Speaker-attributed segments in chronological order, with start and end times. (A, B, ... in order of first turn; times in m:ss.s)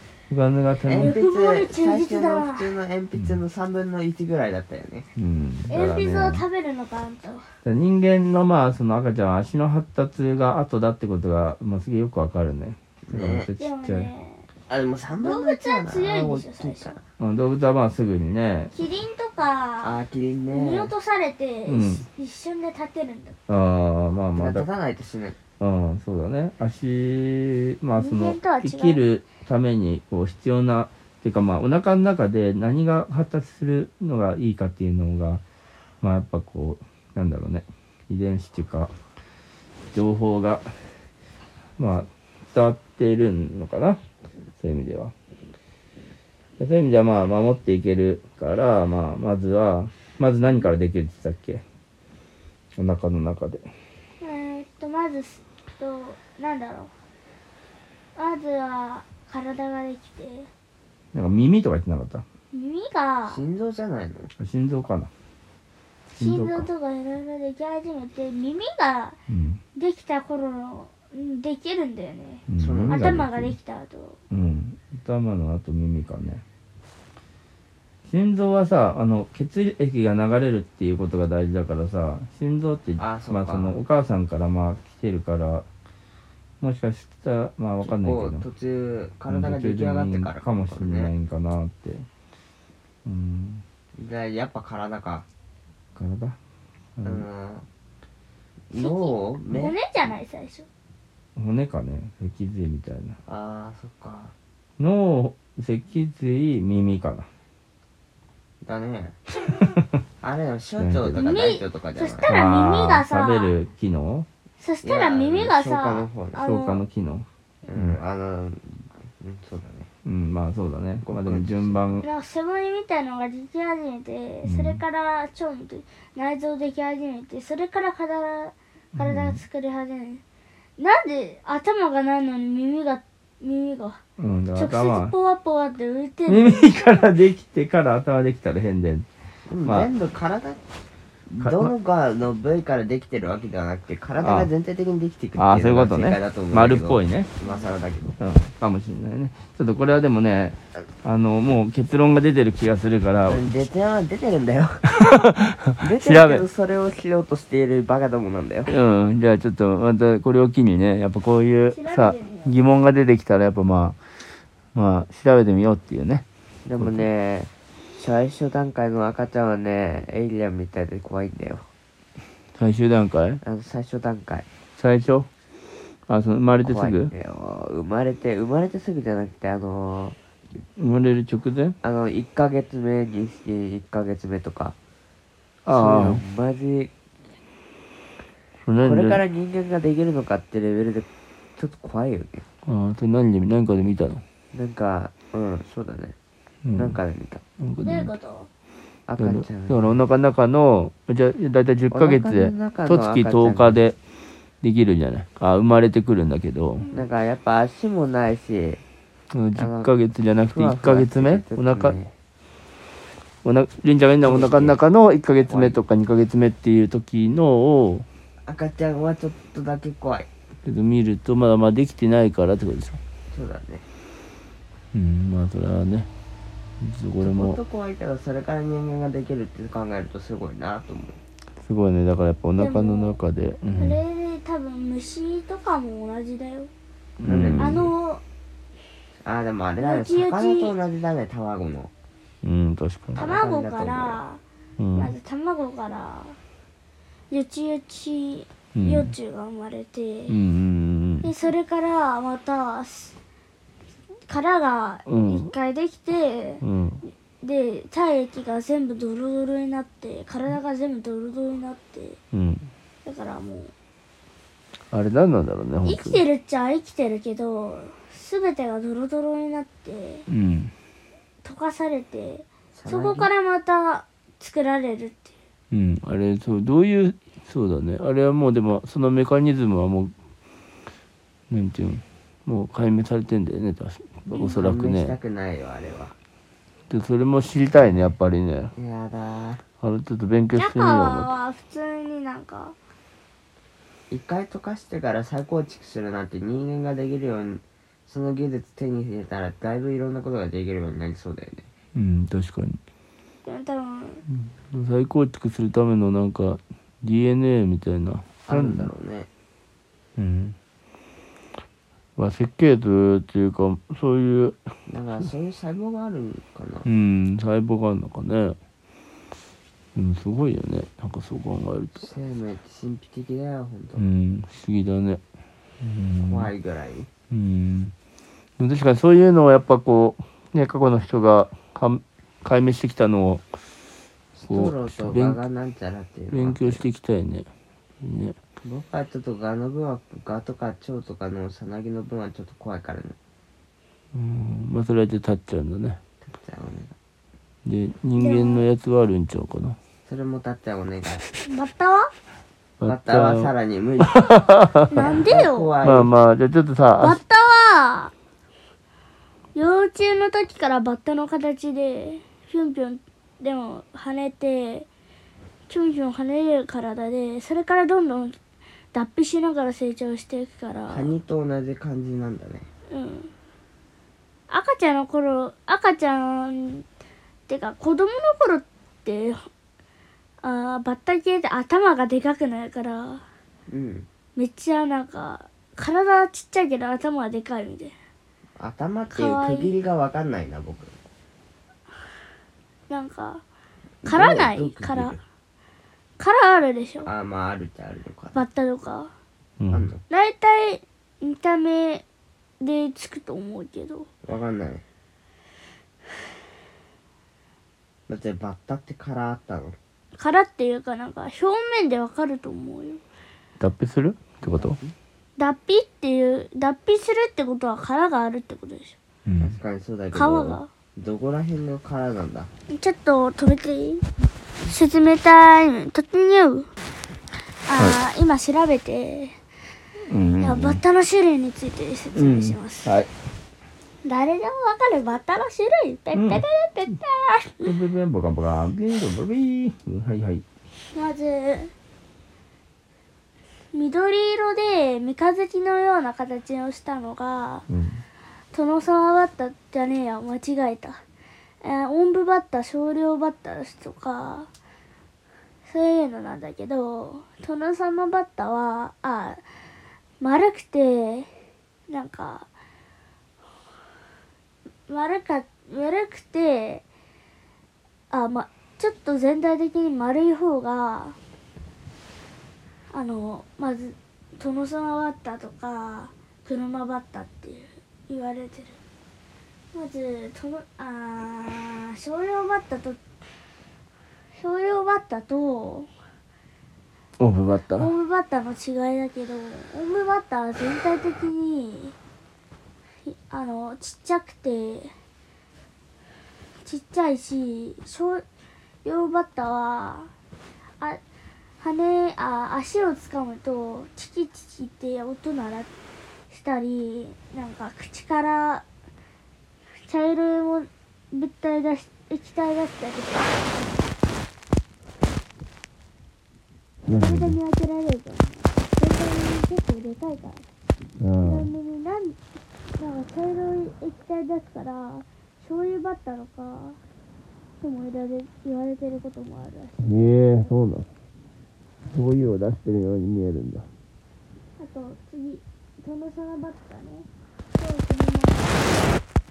0:00.3-0:01.2 A
0:00.9-0:05.0 B
0:00.9-0:02.8 C
0:03.1-0:03.4 A
0:05.2-0:06.4 A
0:05.7-0:07.5 C
0:07.6-0:14.1 A
0:13.1-0:13.5 B
0:13.6-0:14.5 C
0:14.7-0:17.0 B
0:15.2-0:17.0 C
0:17.2-0:18.7 A
0:18.7-0:20.0 C
0:19.8-0:20.9 B
0:20.5-0:23.4 C
0:21.6-0:22.0 A
0:23.5-0:24.7 A
0:24.4-0:25.4 B
0:25.6-0:35.4 A
0:28.0-0:29.0 C
0:36.0-0:38.9 A
0:39.9-0:40.8 A
0:41.8-0:44.0 A
0:44.6-0:45.1 A
0:46.6-0:51.6 A
0:52.8-0:53.7 A
0:54.2-0:56.9 C
0:58.2-1:00.5 C
1:01.1-1:02.2 A
1:02.5-1:03.4 C
1:03.2-1:04.3 B
1:04.4-1:05.1 A
1:06.1-1:09.2 C
1:06.2-1:06.7 A
1:09.3-1:09.6 A
1:09.7-1:14.2 C
1:12.5-1:13.6 A
1:12.6-1:13.1 B
1:14.3-1:16.4 A
1:18.1-1:25.7 A
1:23.0-1:23.8 B
1:26.6-1:28.4 A
1:27.8-1:31.1 B
1:29.3-1:32.1 A
1:33.0-1:33.6 A
1:34.0-1:35.2 B
1:35.9-1:36.4 A
1:37.0-1:37.2 A
1:37.0-1:37.6 B
1:38.7-1:39.8 B
1:38.7-1:40.7 C
1:41.4-1:43.2 A
1:43.2-1:44.3 B
1:44.8-1:47.3 A
1:48.6-1:49.2 B
1:49.5-1:49.8 A
1:50.2-1:52.4 B
1:50.8-1:51.3 A
1:51.2-1:53.6 C
1:52.3-1:54.3 A
1:54.6-1:56.9 C
1:54.8-1:56.4 B
1:56.4-1:58.0 A
1:57.6-1:59.9 B
2:00.0-2:02.0 A
2:01.0-2:01.8 B
2:02.0-2:10.2 C
2:04.4-2:04.8 A
2:08.9-2:09.4 A
2:10.8-2:14.0 C
2:14.2-2:15.1 A
2:14.5-2:17.1 C
2:16.3-2:19.1 A
2:19.5-2:20.6 B
2:19.6-2:19.9 A
2:21.3-2:28.1 B
2:21.4-2:21.7 A
2:24.2-2:24.5 A
2:25.4-2:27.3 A
2:27.4-2:27.7 C
2:28.2-2:33.5 A
2:33.2-2:35.1 B
2:35.1-2:36.4 A
2:35.8-2:38.7 B
2:38.6-2:44.0 A
2:41.7-2:42.6 C
2:44.7-2:46.2 A
2:46.6-2:51.7 B
2:46.8-2:47.1 A
2:52.6-2:53.4 A
2:53.4-2:54.5 B
2:54.8-2:55.3 A
2:56.1-2:57.1 A
2:56.6-3:00.2 B
3:00.8-3:01.8 A
3:01.8-3:04.8 B
3:05.6-3:06.2 A
3:05.7-3:06.9 B
3:08.6-3:09.2 A
3:08.8-3:12.4 B
3:12.6-3:14.2 A
3:14.5-3:16.2 B
3:16.6-3:17.0 A
3:16.7-3:17.4 B
3:17.6-3:18.1 A
3:17.8-3:18.5 C
3:19.1-3:20.0 B
3:19.2-3:24.0 A
3:21.9-3:23.8 B
3:24.6-3:26.9 A
3:26.8-3:27.1 C
3:26.9-3:28.8 B
3:29.3-3:32.0 A
3:29.5-3:29.9 B
3:30.5-3:32.1 B
3:33.4-3:38.0 A
3:34.2-3:34.8 B
3:35.4-3:35.8 B
3:38.4-3:40.3 B
3:40.6-3:43.0 A
3:43.3-3:43.8 B
3:44.9-3:46.1 A
3:46.8-3:47.6 A
3:47.2-3:51.2 B
3:51.6-3:54.0 A
3:52.5-3:53.2 C
3:53.8-3:56.7 C
3:57.2-3:57.8 A
3:57.2-3:57.9 B
3:57.5-3:58.2 C
3:59.2-4:01.9 B
3:59.8-4:00.8 C
4:02.4-4:03.3 A
4:03.2-4:04.2 B
4:03.2-4:04.4 C
4:04.8-4:05.1 A
4:04.9-4:06.4 C
4:07.3-4:10.4 C
4:08.7-4:09.1 A
4:10.3-4:11.3 A
4:11.2-4:13.1 C
4:14.3-4:16.6 C
4:15.0-4:15.5 A
4:16.6-4:17.0 A
4:17.4-4:22.2 C
4:22.3-4:22.7 A
4:23.0-4:23.7 C
4:24.9-4:26.2 A
4:25.8-4:30.2 C
4:30.3-4:30.7 A
4:31.4-4:35.3 C
4:32.7-4:33.3 B
4:35.7-4:40.1 A
4:41.5-4:45.2 A
4:44.3-4:44.6 C
4:44.5-4:46.1 B
4:46.9-4:48.7 A
4:48.7-4:49.6 B
4:49.8-4:51.3 A
4:50.5-4:52.8 C
4:54.1-5:01.6 B
5:01.9-5:02.8 A
5:03.4-5:04.2 C
5:04.3-5:08.9 A
5:08.4-5:09.3 B
5:10.2-5:10.6 A
5:12.2-5:14.6 A
5:14.9-5:16.9 B
5:16.8-5:18.6 A
5:19.9-5:22.1 A
5:22.0-5:24.0 B
5:24.0-5:25.2 A
5:25.8-5:26.5 A
5:26.2-5:27.1 B
5:27.3-5:27.9 A
5:28.6-5:33.4 A
5:34.4-5:36.9 B
5:34.4-5:35.4 A
5:36.3-5:37.5 A
5:38.0-5:38.4 A
5:38.6-5:43.2 B
5:44.1-5:46.0 A
5:46.3-5:47.0 B
5:47.6-5:49.8 A
5:48.1-5:48.7 C
5:50.0-5:51.2 B
5:51.4-5:52.1 C
5:52.8-5:55.2 A
5:52.8-5:54.4 B
5:54.8-5:55.8 C
5:55.0-5:56.1 B
5:55.8-5:57.2 A
5:57.0-5:58.1 C
5:59.5-6:04.9 C
6:05.7-6:08.4 C
6:08.9-6:11.1 C
6:10.9-6:12.7 B
6:12.9-6:13.3 C
6:14.5-6:16.8 C
6:17.5-6:19.4 C
6:20.4-6:23.2 C
6:23.7-6:24.1 B
6:24.4-6:27.9 C
6:28.6-6:30.9 B
6:29.1-6:29.7 C
6:32.9-6:33.4 C
6:34.0-6:35.2 B
6:34.0-6:35.2 C
6:36.2-6:37.1 C
6:37.0-6:38.4 B
6:38.3-6:39.1 C
6:39.6-6:39.9 A
6:39.7-6:40.0 B
6:40.1-6:42.0 C
6:42.6-6:44.1 C
6:44.2-6:44.8 B
6:48.1-6:49.8 B
6:50.2-6:53.0 C
6:53.6-6:54.8 A
6:54.4-6:54.9 B
6:55.4-6:59.0 C
6:59.2-6:59.6 A
6:59.4-7:02.5 B
7:00.1-7:00.7 C
7:02.7-7:04.1 C
7:04.6-7:06.7 C
7:07.7-7:09.4 C
7:10.1-7:10.8 A
7:10.4-7:13.0 C
7:12.1-7:13.1 A
7:14.0-7:17.7 C
7:16.1-7:16.4 A
7:17.6-7:20.4 A
7:20.9-7:21.7 C
7:23.7-7:27.6 C
7:27.7-7:28.0 A
7:28.5-7:31.0 C
7:31.6-7:34.5 C
7:35.6-7:39.4 C
7:40.2-7:41.3 C
7:41.9-7:42.5 C
7:44.9-7:46.8 C
7:48.1-7:51.2 C
7:52.9-7:58.8 C
7:59.7-8:03.0 C
8:04.4-8:05.9 C
8:07.2-8:07.9 A
8:07.7-8:11.9 C
8:13.0-8:14.9 C
8:16.6-8:18.2 C
8:18.8-8:20.1 C
8:21.6-8:25.7 C
8:26.3-8:28.6 C
8:29.9-8:33.7 C
8:36.8-8:37.4 A
8:36.9-8:40.4 C
8:41.0-8:41.5 A
8:41.2-8:42.2 C
8:42.7-8:46.8 C
8:47.6-8:50.5 C
8:49.8-8:50.9 A
8:51.9-8:53.7 A
8:54.6-8:58.8 C